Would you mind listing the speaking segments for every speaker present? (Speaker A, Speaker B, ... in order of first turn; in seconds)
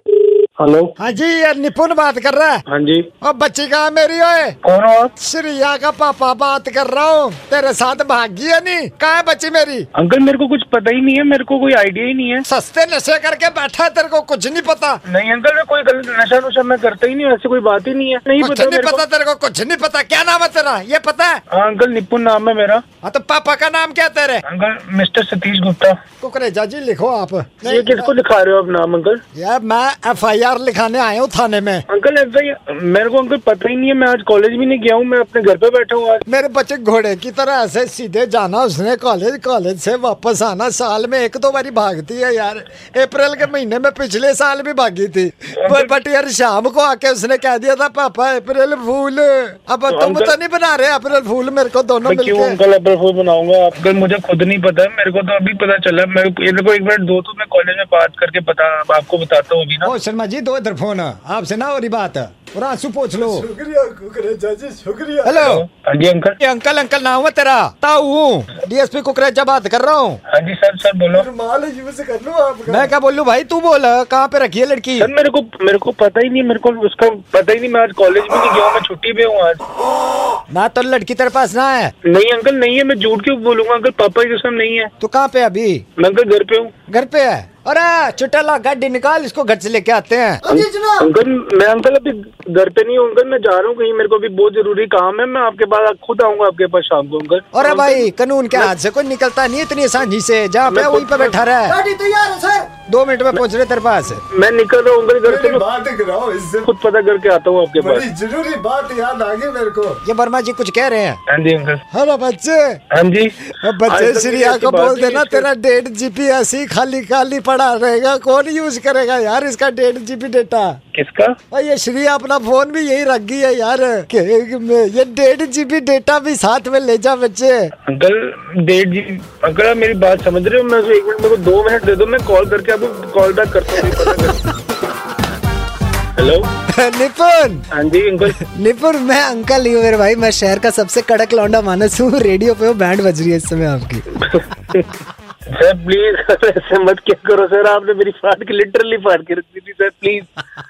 Speaker A: 0.6-0.9, 2.7-3.1, 4.6-5.1, 9.9-12.4, 15.1-19.0, 21.5-22.8, 24.4-26.0, 27.6-29.2, 31.9-36.2, 45.5-46.0, 49.9-50.4, 52.0-59.9, 65.4-66.4, 70.3-71.3, 75.0-79.6, 82.0-84.9, 86.0-86.7, 90.5-98.7, 100.7-101.4, 104.3-105.7, 106.6-108.1, 111.3-111.8, 112.9-115.5, 120.9-121.3, 127.9-134.4, 136.2-136.5, 137.7-138.4, 144.2-144.9, 145.5-150.3
Speaker B: 1.0-2.6, 3.2-4.5, 5.2-9.9, 12.5-15.0, 18.4-21.4, 23.0-24.4, 26.2-28.1, 29.4-31.8, 36.3-52.6, 59.8-63.5, 65.2-65.7, 66.4-70.2, 72.7-75.1, 80.5-81.9, 85.0-85.8, 86.9-91.0, 97.5-101.8, 102.9-104.2, 110.0-111.2, 111.9-112.8, 113.5-120.8, 121.5-127.7, 136.7-137.7, 138.4-144.1
Speaker C: 63.2-65.4, 71.1-72.9, 101.7-102.7, 105.3-106.7, 107.8-110.0